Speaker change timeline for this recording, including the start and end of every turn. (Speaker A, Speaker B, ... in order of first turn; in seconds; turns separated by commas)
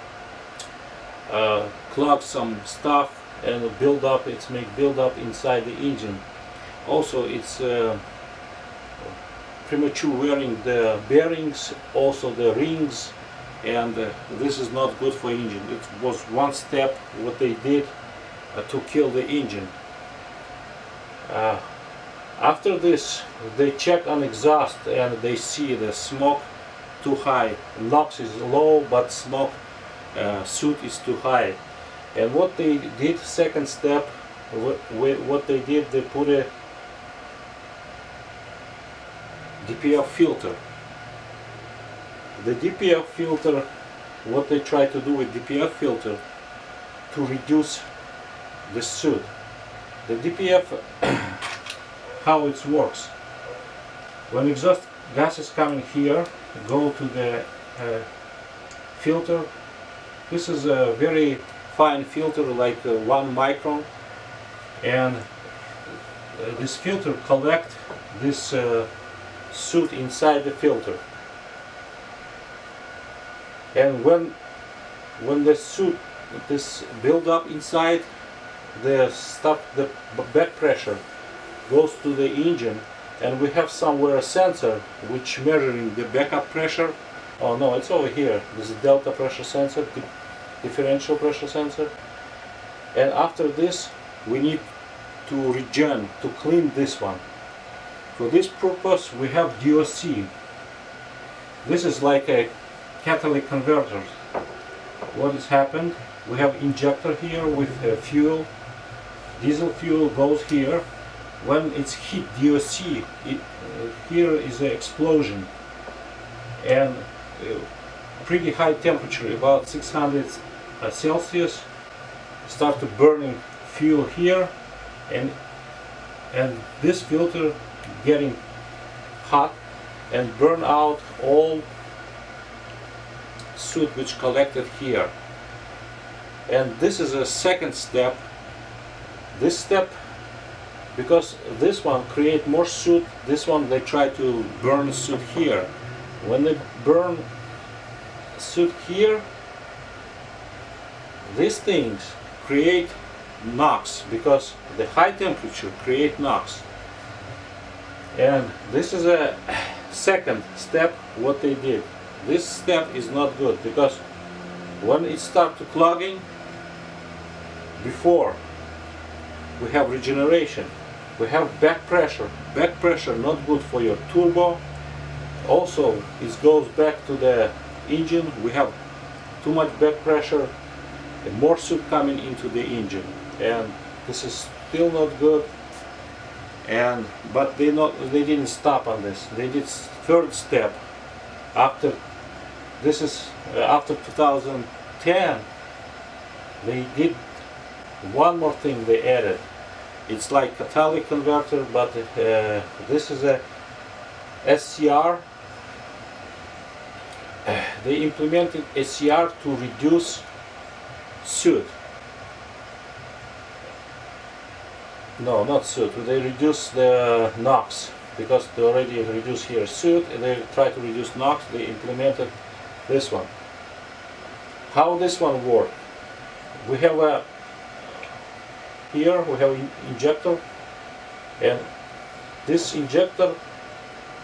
Speaker A: 1.3-6.2, Speaker A: 6.8-8.0, Speaker A: 9.0-17.9, Speaker A: 18.5-19.7, Speaker A: 21.2-21.7, Speaker A: 22.4-26.5, Speaker A: 27.0-29.6, Speaker A: 30.1-31.6, Speaker A: 32.1-36.5, Speaker A: 39.6-40.6, Speaker A: 42.4-43.6, Speaker A: 44.2-46.2, Speaker A: 47.1-47.9, Speaker A: 48.6-49.3, Speaker A: 50.0-51.5, Speaker A: 52.2-53.1, Speaker A: 54.3-58.1, Speaker A: 58.9-59.5, Speaker A: 60.3-63.9, Speaker A: 64.8-65.3, Speaker A: 66.3-68.9, Speaker A: 69.5-71.0, Speaker A: 73.7-74.3, Speaker A: 75.2-78.1, Speaker A: 78.7-81.0, Speaker A: 81.7-90.1, Speaker A: 90.6-91.9, Speaker A: 92.9-94.6, Speaker A: 95.2-97.2, Speaker A: 98.1-100.3, Speaker A: 101.6-104.1, Speaker A: 105.1-108.5, Speaker A: 109.4-110.8, Speaker A: 111.4-115.5, Speaker A: 116.6-117.7, Speaker A: 118.2-121.7, Speaker A: 122.4-124.5, Speaker A: 125.1-125.4, Speaker A: 126.3-128.4, Speaker A: 129.2-129.6, Speaker A: 130.1-131.7, Speaker A: 133.5-135.1, Speaker A: 136.5-138.2, Speaker A: 139.3-139.9, Speaker A: 140.9-145.7, Speaker A: 146.2-147.2, Speaker A: 148.3-149.2, Speaker A: 151.2-156.6, Speaker A: 158.1-164.0, Speaker A: 164.8-166.2, Speaker A: 167.8-168.4, Speaker A: 169.6-174.6, Speaker A: 175.4-178.7, Speaker A: 179.4-180.5, Speaker A: 181.2-185.5, Speaker A: 186.6-190.8, Speaker A: 191.5-192.0, Speaker A: 192.8-195.4, Speaker A: 196.6-197.2, Speaker A: 198.0-199.4, Speaker A: 200.1-203.4, Speaker A: 204.4-205.2, Speaker A: 207.4-210.2, Speaker A: 211.2-211.7, Speaker A: 215.2-222.3, Speaker A: 222.9-223.3, Speaker A: 224.7-225.7, Speaker A: 226.6-227.2, Speaker A: 228.9-230.4, Speaker A: 231.4-231.6, Speaker A: 232.4-233.4